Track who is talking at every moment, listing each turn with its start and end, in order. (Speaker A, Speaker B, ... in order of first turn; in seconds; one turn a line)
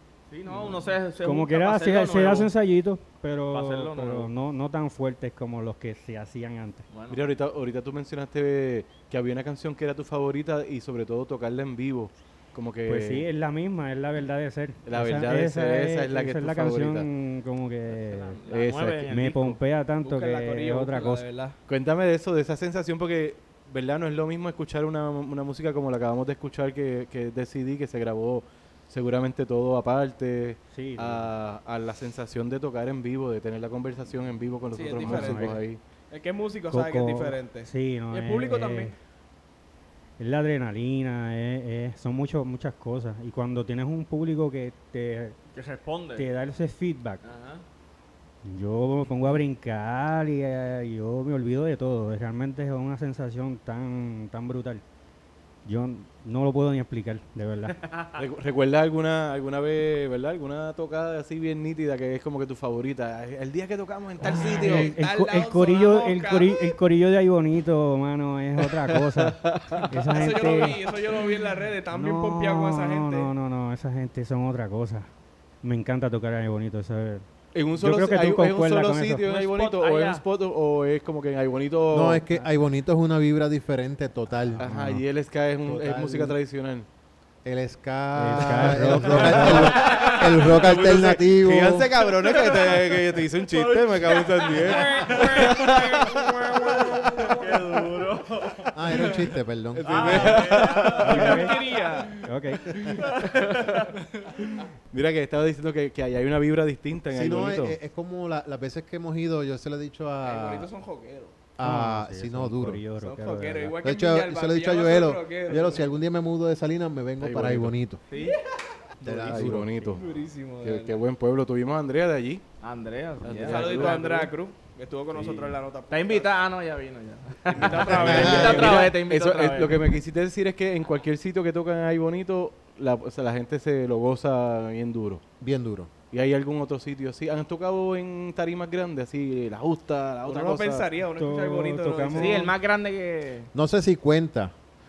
Speaker A: 0.3-2.5
Speaker B: 0.5-6.8
Speaker A: 3.5-4.3
Speaker A: 6.9-7.2
Speaker C: 7.1-13.3
Speaker B: 12.8-18.4
Speaker C: 14.8-17.1
Speaker A: 17.9-19.6
Speaker C: 18.5-19.1
Speaker B: 19.1-21.2
Speaker D: 20.0-21.6
Speaker C: 21.7-35.8
Speaker B: 30.7-31.3
Speaker D: 34.7-35.6
Speaker B: 34.9-35.6
Speaker D: 36.1-38.9
Speaker B: 36.7-38.9
Speaker B: 40.2-45.4
Speaker A: 45.5-46.2
Speaker B: 46.1-47.2
Speaker A: 47.2-47.6
Speaker B: 48.4-54.8
Speaker B: 55.6-57.8
Speaker A: 57.9-58.2
Speaker C: 58.2-64.9
Speaker B: 64.2-70.8
Speaker D: 64.2-66.8
Speaker C: 69.1-69.9
Speaker D: 70.1-73.3
Speaker B: 71.9-75.1
Speaker B: 75.6-77.2
Speaker C: 77.5-82.2
Speaker B: 77.8-79.2
Speaker A: 79.2-80.2
Speaker E: 81.9-85.0
Speaker C: 84.6-86.9
Speaker E: 85.6-86.3
Speaker E: 87.4-91.9
Speaker B: 88.2-89.8
Speaker C: 88.4-97.6
Speaker A: 89.5-90.8
Speaker A: 92.2-99.1
Speaker E: 98.7-100.7
Speaker C: 99.7-101.3
Speaker A: 99.8-102.0
Speaker B: 101.0-101.6
Speaker D: 101.0-102.1
Speaker B: 102.1-102.7
Speaker A: 102.8-103.9
Speaker C: 102.8-103.8
Speaker C: 104.9-107.7
Speaker E: 107.1-110.7
Speaker D: 110.2-111.3
Speaker E: 111.5-112.8
Speaker B: 111.6-113.8
Speaker D: 113.0-115.8
Speaker E: 113.8-118.0
Speaker C: 117.2-117.7
Speaker A: 118.1-118.4
Speaker E: 119.0-120.0
Speaker C: 119.0-122.4
Speaker B: 119.4-119.8
Speaker D: 120.0-121.0
Speaker A: 122.6-124.2
Speaker C: 123.2-124.3
Speaker D: 123.4-126.3
Speaker C: 125.1-125.5
Speaker A: 125.9-129.9
Speaker D: 127.5-128.8
Speaker C: 127.8-135.2
Speaker E: 128.0-128.7
Speaker E: 135.4-135.9
Speaker C: 136.1-140.9
Speaker D: 140.2-142.5
Speaker B: 141.2-142.5
Speaker A: 142.1-143.5
Speaker E: 143.5-144.5